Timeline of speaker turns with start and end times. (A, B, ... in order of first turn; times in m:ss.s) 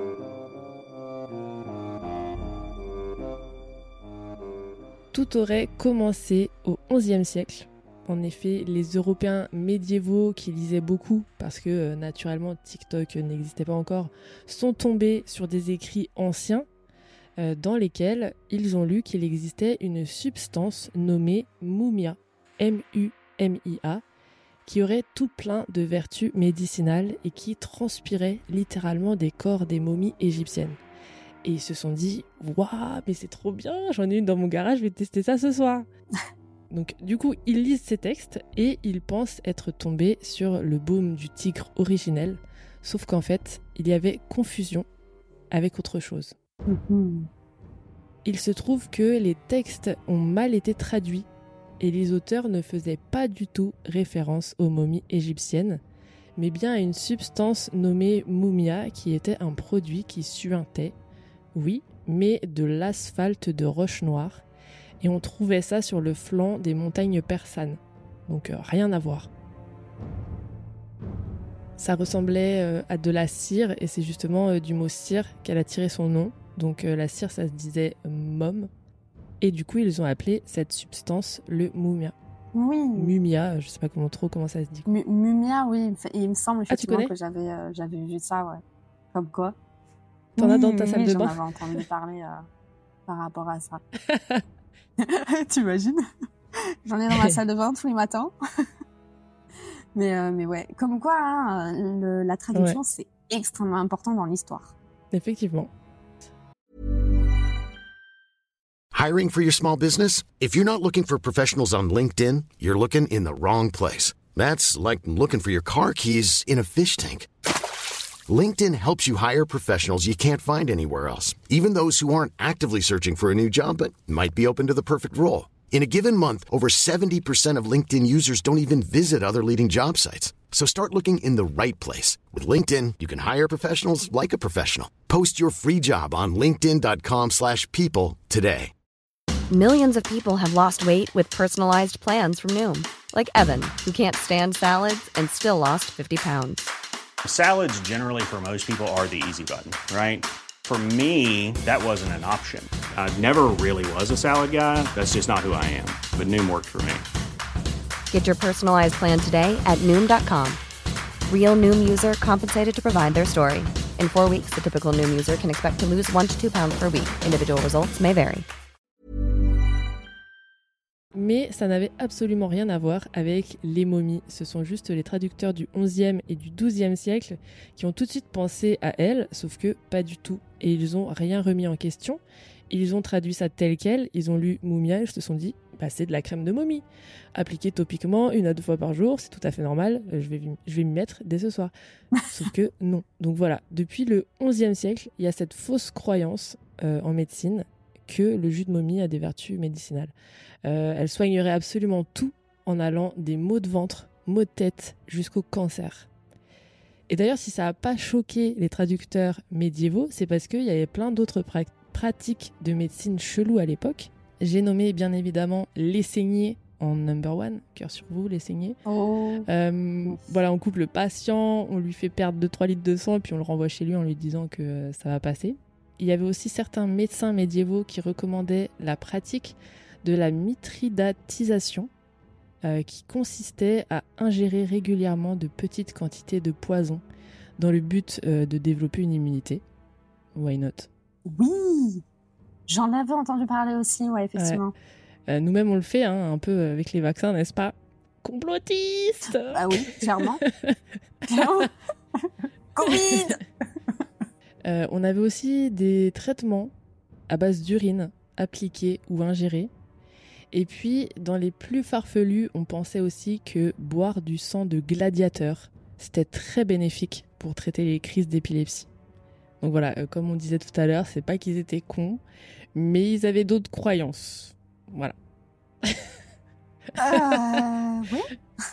0:05.1-0:16.7 A
0:17.4-0:24.0 A
0:24.6-0:30.8 A
0:31.4-0:35.9 A
0:36.7-0:44.8 A
0:45.5-0:46.3 A
0:46.7-0:47.3 B
0:48.2-0:51.3 A
0:51.8-0:55.8 A
0:56.4-1:01.0 A
1:01.5-1:04.4 A
1:05.0-1:09.3 A
1:11.8-1:18.7 A
1:19.4-1:22.1 A
1:22.5-1:23.1 B
1:22.9-1:24.9 A
1:24.8-1:28.6 B
1:26.7-1:27.1 A
1:29.1-1:29.6 B
1:30.4-1:32.4 B
1:30.4-1:31.8 A
1:33.1-1:33.8 B
1:34.1-1:34.4 A
1:35.0-1:36.0 B
1:36.8-1:38.3 B
1:37.1-1:37.4 A
1:39.9-1:44.7 B
1:42.5-1:42.8 A
1:45.1-1:45.7 A
1:48.9-1:57.3 C
1:58.3-2:18.7 C
2:19.5-2:26.7 D
2:27.2-2:37.0 E
2:38.1-2:40.6 D
2:41.3-2:48.4 D
2:51.1-3:06.8 A
3:07.3-3:11.7 A
3:12.2-3:26.1 A
3:27.1-3:38.8 A
3:38.8-3:39.5 B
3:39.5-3:51.9 A
3:52.6-3:57.0 A
3:57.6-3:59.6 A
4:00.3-4:00.9 A
4:01.3-4:02.0 B
4:02.7-4:04.7 B
4:04.3-4:04.6 A
4:05.3-4:11.7 A
4:09.5-4:10.4 B
4:11.3-4:13.4 B
4:12.8-4:13.2 A
4:14.6-4:16.7 A
4:17.3-4:19.7 A
4:20.5-4:28.9 A
4:29.6-4:32.2 A
4:32.7-4:35.1 A
4:35.8-4:36.2 A
4:37.0-4:37.6 A
4:37.0-4:38.3 B